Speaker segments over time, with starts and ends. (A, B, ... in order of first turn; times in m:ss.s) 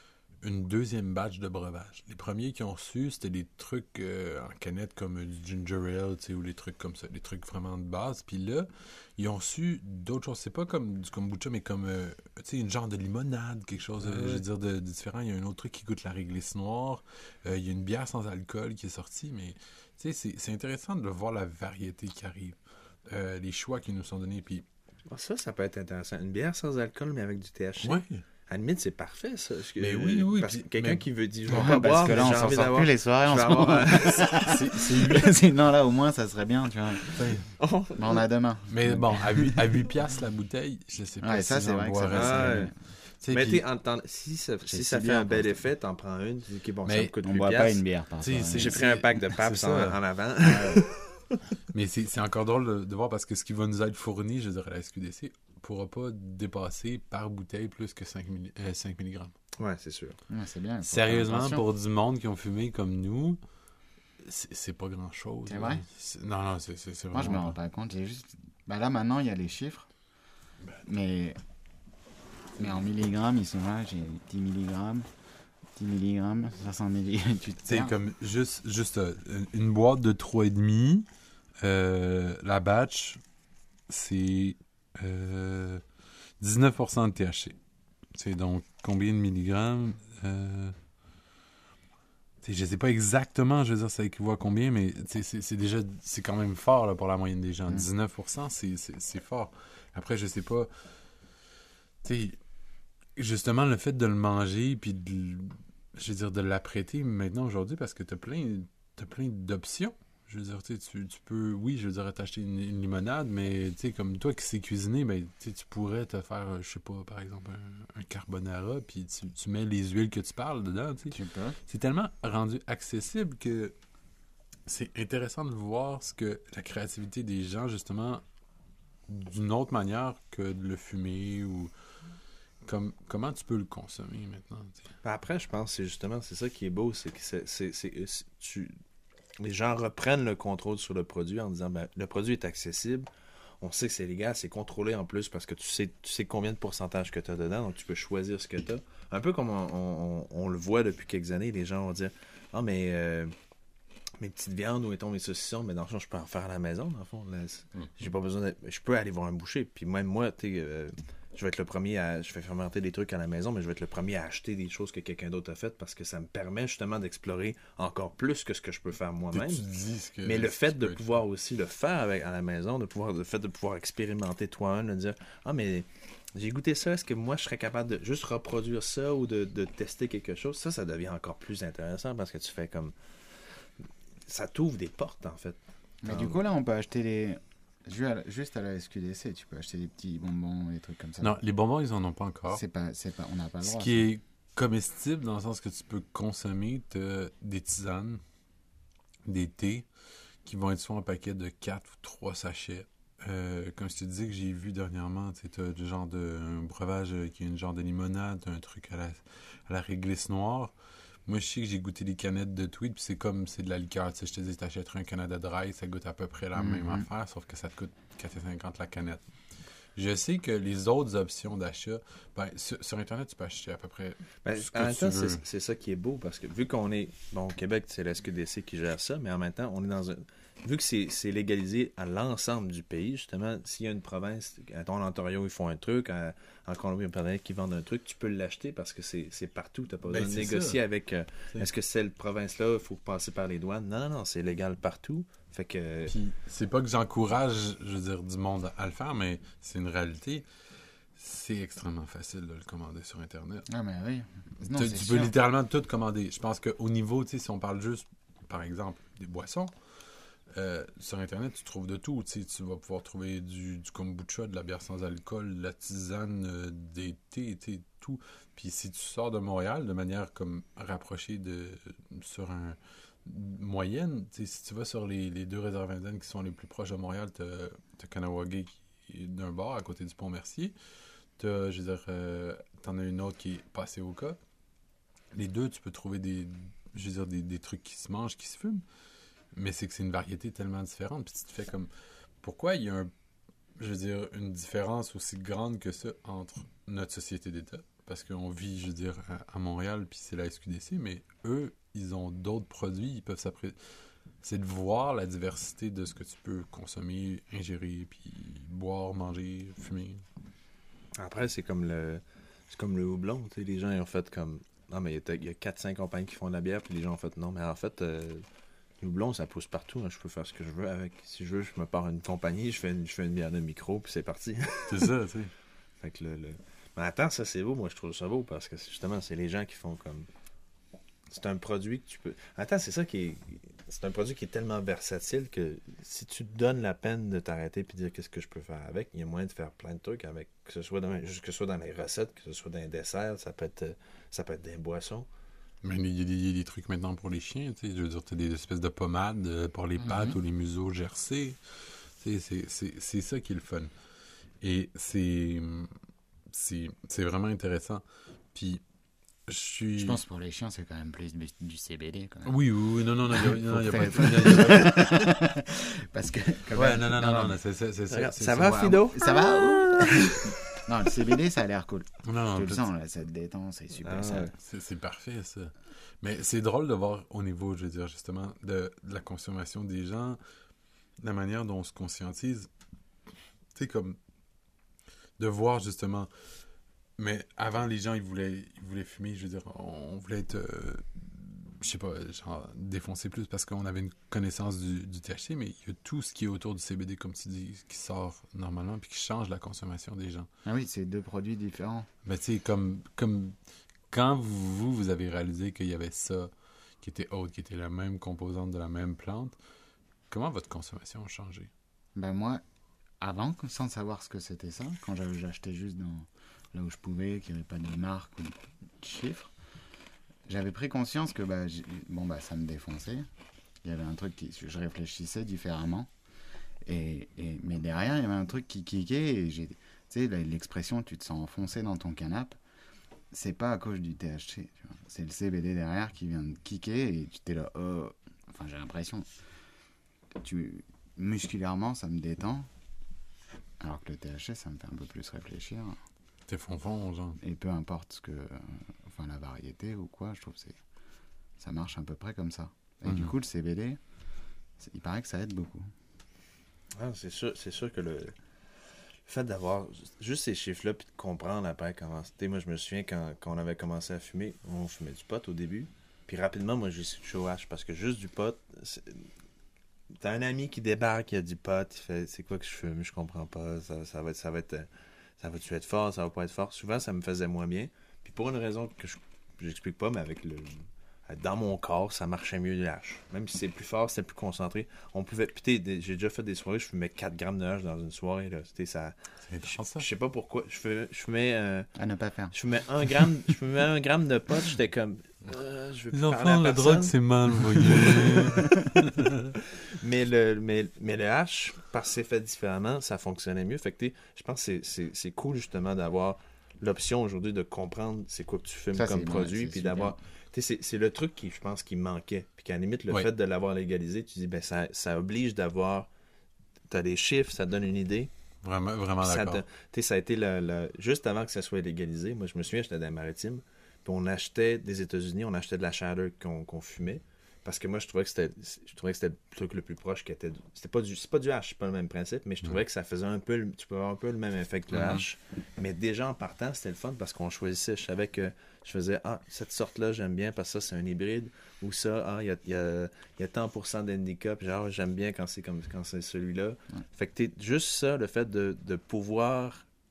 0:00.4-0:22.6 A
0:14.1-0:14.4 B
0:23.1-0:24.6 A
0:25.1-0:34.5 C
0:27.8-0:28.2 A
0:29.8-0:32.5 A
0:31.5-0:37.4 B
0:34.2-0:35.4 A
0:37.1-0:37.5 A
0:37.6-0:38.2 C
0:38.0-0:39.7 B
0:38.7-0:43.6 A
0:41.2-0:42.8 B
0:42.1-0:42.7 C
0:43.3-0:47.8 C
0:44.6-0:45.6 B
0:46.9-0:47.2 A
0:47.2-0:48.8 B
0:48.2-0:50.0 A
0:48.5-0:51.4 C
0:50.4-0:50.8 B
0:51.7-0:59.3 A
0:59.6-1:00.2 C
1:00.3-1:01.6 B
1:00.8-1:03.4 A
1:04.2-1:07.6 A
1:05.5-1:05.8 B
1:07.1-1:09.9 B
1:10.8-1:11.4 B
1:12.6-1:15.1 B
1:15.8-1:17.9 B
1:17.7-1:21.1 A
1:21.6-1:23.2 A
1:23.9-1:25.8 A
1:26.4-1:27.6 A
1:28.1-1:30.8 A
1:32.4-1:40.7 A
1:42.0-1:42.4 A
1:43.2-2:01.2 A
2:01.1-2:01.6 B
2:01.7-2:03.7 A
2:04.7-2:08.2 A
2:09.1-2:11.7 A
2:12.6-2:14.9 A
2:15.0-2:18.7 C
2:19.4-2:23.1 C
2:23.6-2:33.3 C
2:34.2-2:49.7 C
2:49.3-2:51.1 A
2:50.2-3:03.0 C
3:03.8-3:06.4 C
3:06.0-3:11.4 B
3:11.2-3:12.6 A
3:12.5-3:14.1 B
3:13.6-3:18.2 A
3:19.2-3:19.9 A
3:20.4-3:30.7 A
3:31.3-3:39.2 A
3:36.6-3:37.1 B
3:40.0-3:45.4 A
3:44.4-4:06.2 C
4:00.1-4:00.8 A
4:06.1-4:10.4 A
4:11.2-4:13.7 A
4:13.7-4:15.3 B
4:14.7-4:19.7 A
4:20.5-4:40.8 A
4:41.4-4:44.4 A
4:45.3-4:48.8 A
4:49.5-4:51.9 A
4:52.4-4:53.1 A
4:53.8-5:03.8 A
5:04.4-5:10.2 A
5:11.2-5:18.4 C
5:19.0-5:25.1 C
5:24.9-5:25.5 A
5:26.0-5:30.3 C
5:31.3-5:45.3 C
5:45.8-5:53.9 A
5:50.0-5:50.4 B
5:54.6-5:56.0 A
5:56.5-5:58.0 A
5:58.5-5:58.8 A
5:59.5-6:00.2 A
6:00.0-6:02.6 B
6:02.5-6:05.3 A
6:03.3-6:07.6 B
6:06.7-6:09.0 A
6:08.1-6:10.6 C
6:08.6-6:14.5 B
6:12.2-6:12.9 A
6:14.0-6:14.5 C
6:14.6-6:20.4 A
6:21.2-6:22.7 A
6:23.8-6:24.2 A
6:25.4-6:26.3 A
6:27.2-6:40.5 A
6:40.6-6:42.1 B
6:42.2-6:43.6 A
6:44.1-6:46.5 A
6:47.0-6:49.5 A
6:50.3-6:51.7 A
6:52.2-6:52.6 B
6:53.2-6:59.5 B
7:00.5-7:03.3 B
7:03.8-7:06.1 B
7:06.9-7:12.6 B
7:13.3-7:19.3 B
7:20.4-7:22.7 B
7:23.8-7:26.0 B
7:26.5-7:27.4 A
7:27.4-7:30.8 B
7:31.6-7:34.0 B
7:33.1-7:33.3 A
7:34.8-7:35.9 B
7:37.0-7:38.4 C
7:39.3-7:49.3 C
7:50.1-8:11.9 C
8:09.4-8:10.1 A
8:12.0-8:12.6 B
8:12.5-8:18.7 C
8:16.1-8:19.6 A
8:19.6-8:36.1 C
8:29.0-8:30.2 B
8:36.9-8:38.3 C
8:38.6-8:39.6 A
8:39.2-9:09.8 C
8:54.9-8:55.2 A